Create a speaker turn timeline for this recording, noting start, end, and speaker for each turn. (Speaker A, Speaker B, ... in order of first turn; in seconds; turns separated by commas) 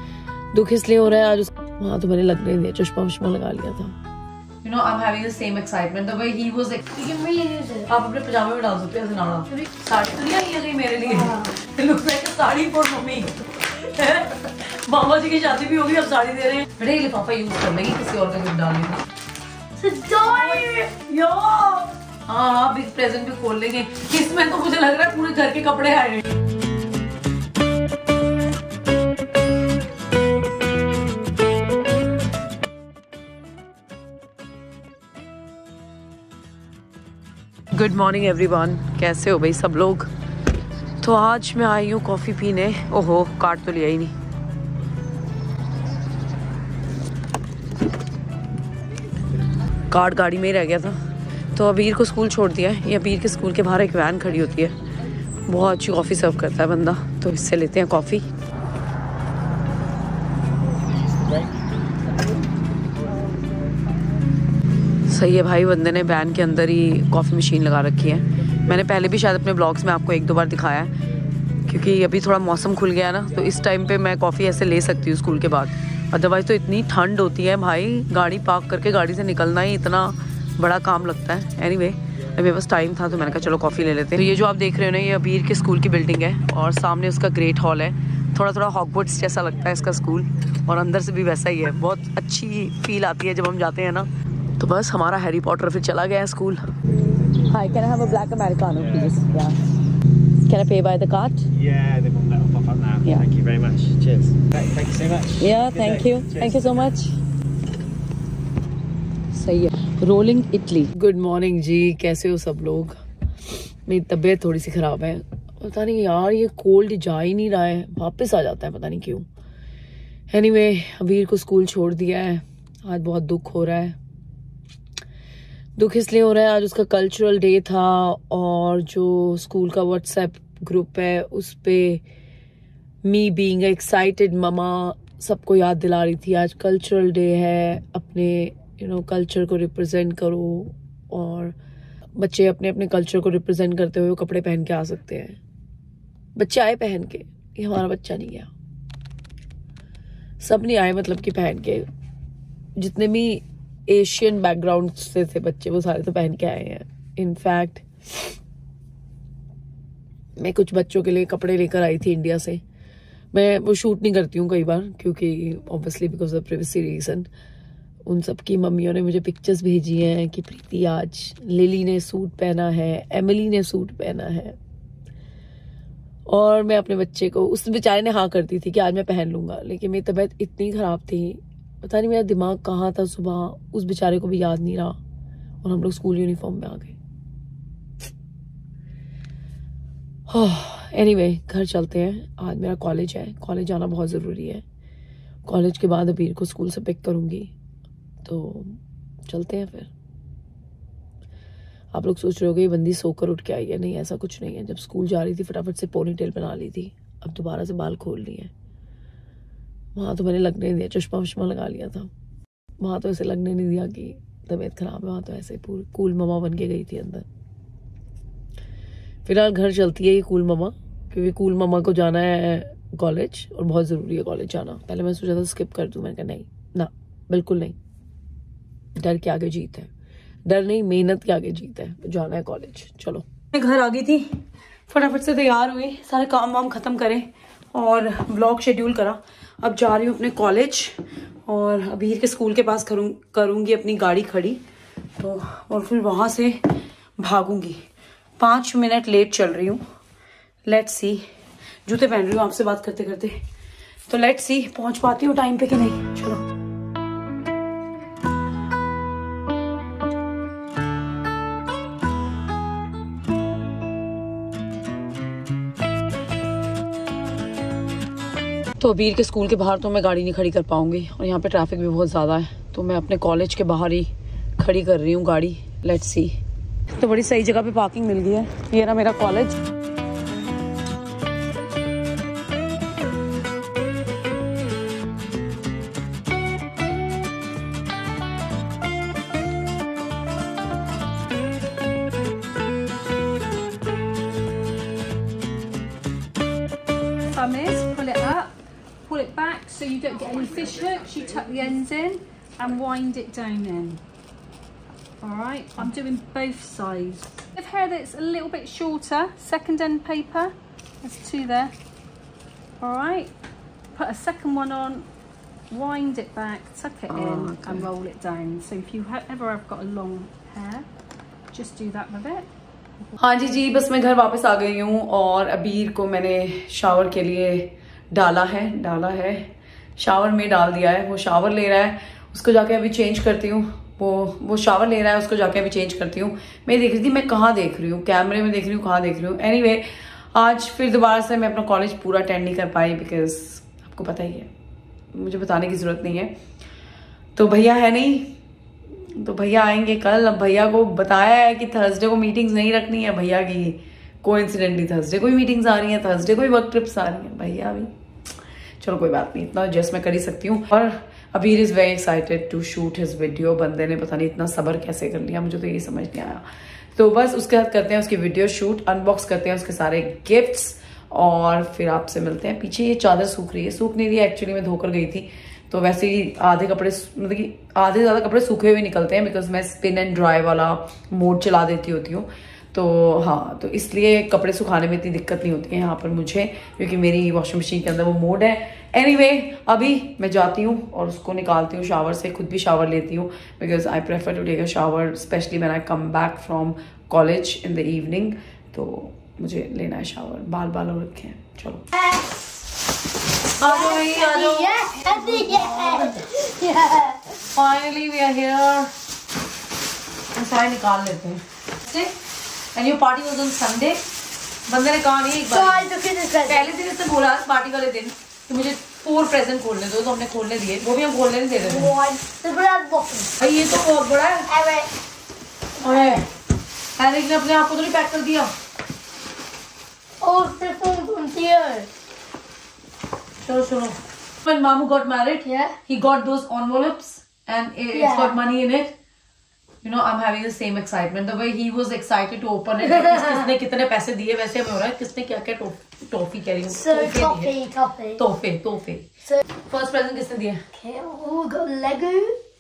Speaker A: 0.5-4.0, Speaker A: 4.6-6.8, Speaker B: 6.9-7.9, Speaker A: 7.9-19.1, Speaker B: 11.0-11.6, Speaker B: 19.8-20.8, Speaker A: 20.2-26.3, Speaker A: 37.7-40.1, Speaker A: 41.0-44.1, Speaker A: 49.9-51.0, Speaker A: 51.5-54.7, Speaker A: 55.5-58.2, Speaker A: 65.1-70.9, Speaker A: 71.7-96.7, Speaker A: 97.5-99.6, Speaker C: 98.8-99.2, Speaker A: 100.5-101.5, Speaker C: 101.5-106.9, Speaker A: 105.4-107.1, Speaker A: 109.3-113.0, Speaker A: 113.9-119.3, Speaker A: 120.3-124.0, Speaker A: 125.8-132.0, Speaker A: 133.1-141.6, Speaker A: 142.2-145.4, Speaker A: 146.4-148.5, Speaker A: 150.4-151.9, Speaker A: 152.8-158.3, Speaker A: 160.4-162.6, Speaker A: 163.3-167.3, Speaker A: 168.1-174.6, Speaker A: 176.3-185.0, Speaker A: 185.6-187.0, Speaker A: 190.3-194.6, Speaker A: 195.5-197.5, Speaker A: 198.2-199.9, Speaker A: 201.9-208.5, Speaker A: 210.0-212.1, Speaker A: 212.8-217.2, Speaker A: 219.2-227.8, Speaker A: 229.0-229.9, Speaker A: 230.5-234.3, Speaker A: 234.9-244.6, Speaker A: 245.2-246.6, Speaker A: 247.2-247.8, Speaker A: 248.4-249.8, Speaker A: 250.7-251.2, Speaker A: 251.8-253.3, Speaker A: 254.1-256.4, Speaker A: 268.8-276.4, Speaker A: 277.0-279.6, Speaker D: 297.3-304.0, Speaker D: 305.2-311.7, Speaker D: 312.8-313.3, Speaker D: 313.9-315.1, Speaker D: 315.7-320.9, Speaker A: 317.1-317.9, Speaker D: 321.5-322.5, Speaker A: 323.2-344.5, Speaker A: 345.1-346.3, Speaker A: 347.4-348.4, Speaker A: 348.9-357.9, Speaker A: 358.8-366.4, Speaker A: 366.9-401.9, Speaker B: 401.9-402.5, Speaker A: 403.6-406.2, Speaker B: 403.6-407.3, Speaker A: 407.5-408.9, Speaker A: 410.3-412.1, Speaker A: 412.7-414.0, Speaker A: 414.7-415.9, Speaker B: 415.5-416.8, Speaker A: 416.5-421.9, Speaker B: 421.6-423.3, Speaker A: 423.4-424.5, Speaker B: 424.5-424.9, Speaker A: 425.8-426.3, Speaker B: 425.8-426.2, Speaker A: 427.0-428.5, Speaker B: 430.2-431.9, Speaker A: 433.4-438.9, Speaker B: 435.4-435.8, Speaker B: 437.9-438.3, Speaker A: 439.8-447.5, Speaker B: 446.7-448.2, Speaker A: 448.2-449.1, Speaker A: 449.7-450.6, Speaker B: 450.7-452.4